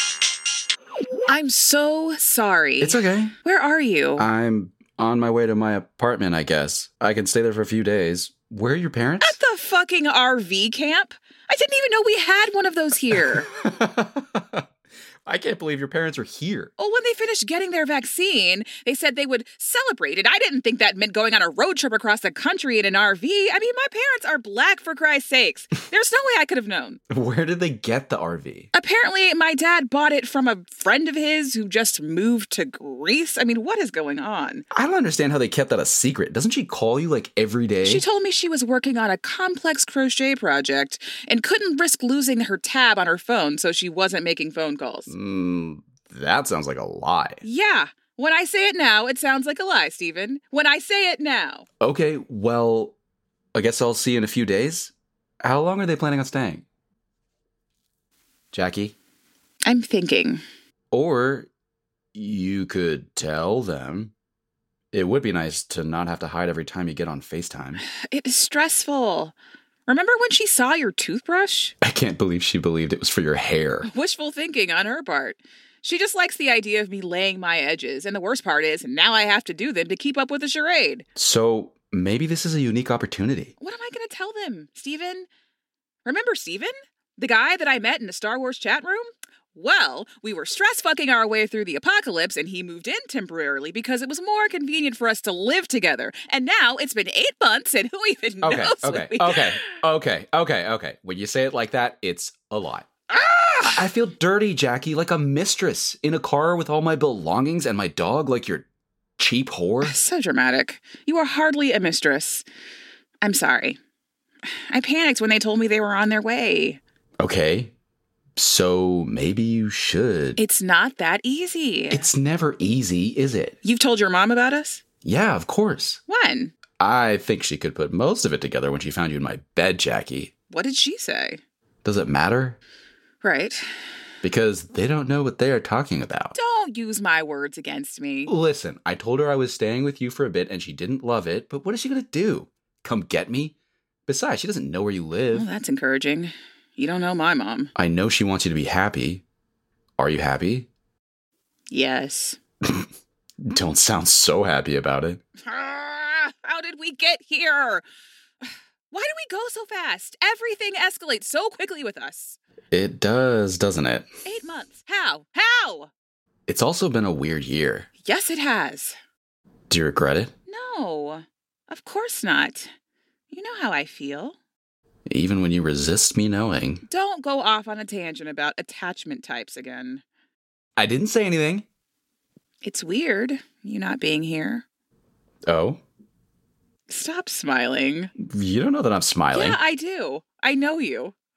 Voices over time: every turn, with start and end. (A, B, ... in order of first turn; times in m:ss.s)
0:01.3-0:04.3 A
0:02.8-0:03.4 B
0:04.2-0:09.4 B
0:09.2-0:13.5 A
0:13.1-0:14.6 B
0:15.3-0:16.7 B
0:16.8-0:27.0 A
0:27.1-0:28.7 B
0:28.7-0:34.6 A
0:34.7-0:38.0 B
0:37.8-0:45.1 A
0:45.1-0:47.4 B
0:47.4-0:51.7 A
0:51.8-0:53.0 B
0:53.6-0:56.6 B
0:58.5-0:59.0 B
0:59.7-1:00.4 A
1:00.9-1:01.5 B
1:02.2-1:04.1 B
1:04.9-1:07.8 B
1:08.1-1:09.4 A
1:09.9-1:11.7 A
1:11.8-1:13.9 B
1:13.9-1:21.0 A
1:21.2-1:23.5 B
1:23.6-1:25.3 A
1:26.0-1:39.6 A
1:38.4-1:42.9 B
1:43.1-1:43.9 A
1:43.6-1:48.7 B
1:49.2-1:50.0 B
1:49.8-1:52.4 A
1:53.2-1:53.8 A
1:54.7-1:56.8 A
1:57.2-1:57.7 B
1:58.4-2:00.4 B
2:00.4-2:02.1 A
2:01.9-2:03.6 B
2:03.6-2:04.8 A
2:05.0-2:06.0 B
2:06.1-2:06.6 A
2:06.8-2:10.3 B
2:10.5-2:11.4 A
2:11.8-2:12.6 B
2:13.2-2:13.6 A
2:14.2-2:16.4 B
2:16.4-2:18.3 A
2:18.3-2:23.6 B
2:24.1-2:25.5 B
2:25.3-2:27.7 A
2:27.8-2:29.2 B
2:30.0-2:30.7 B
2:31.7-2:32.4 A
2:32.6-2:32.9 B
2:33.4-2:35.2 B
2:35.4-2:37.8 A
2:38.9-2:42.4 A
2:42.7-2:44.1 B
2:44.3-2:45.9 A
2:46.5-2:47.9 B
2:48.0-2:49.0 A
2:49.7-2:50.3 B
2:50.5-2:52.7 A
2:53.3-2:54.4 A
2:55.1-2:56.8 B
2:56.9-3:00.0 A
3:00.8-3:01.7 B
3:02.6-3:04.6 A
3:05.5-3:05.8 B
3:06.9-3:08.1 A
3:08.2-3:09.6 B
3:09.3-3:11.1 A